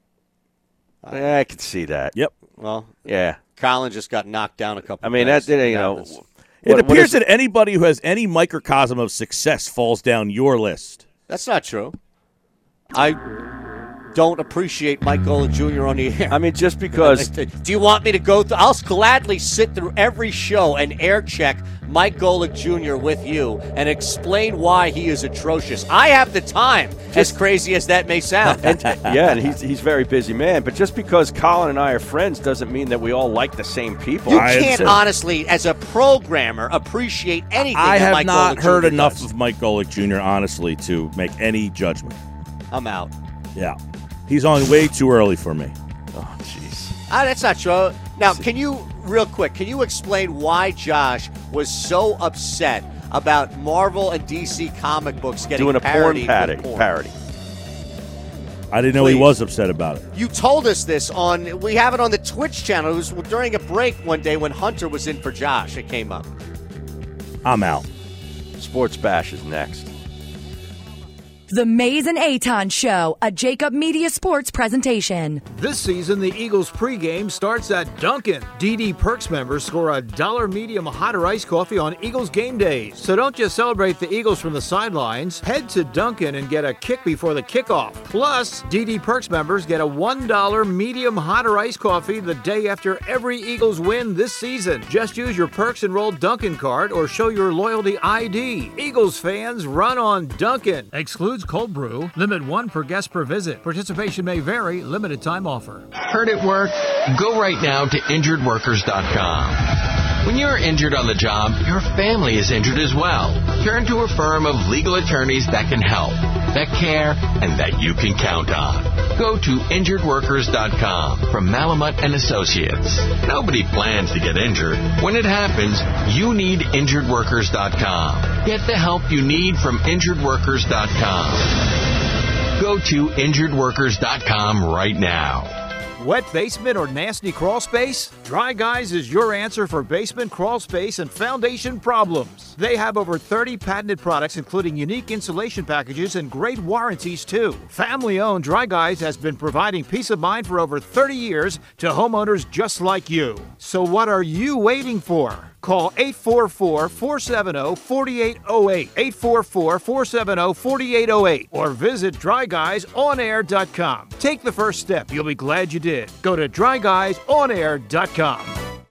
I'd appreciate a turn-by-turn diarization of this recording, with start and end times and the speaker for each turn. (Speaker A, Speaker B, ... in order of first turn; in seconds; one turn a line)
Speaker A: 1.0-1.3
Speaker B: 1.1-2.2
Speaker A: 2.6-6.1
Speaker B: 3.0-3.4
Speaker B: 5.0-7.2
Speaker C: 6.6-11.1
Speaker A: 11.3-11.9
Speaker A: 12.9-13.2
Speaker A: 14.1-16.4
Speaker B: 16.3-17.3
Speaker A: 17.0-28.6
Speaker B: 28.6-34.9
Speaker C: 28.7-29.3
Speaker A: 34.3-39.3
Speaker C: 34.3-35.0
Speaker C: 37.7-42.2
Speaker A: 42.7-43.1
Speaker C: 44.3-45.7
Speaker B: 46.1-46.9
Speaker A: 47.1-56.9
Speaker B: 55.5-57.1
Speaker C: 58.7-60.0
Speaker A: 58.9-59.3
Speaker A: 60.1-66.3
Speaker C: 67.4-67.9
Speaker B: 68.6-69.9
Speaker D: 71.5-75.4
Speaker E: 75.5-105.9
Speaker F: 105.9-131.6
Speaker F: 132.6-135.5
Speaker E: 136.0-168.6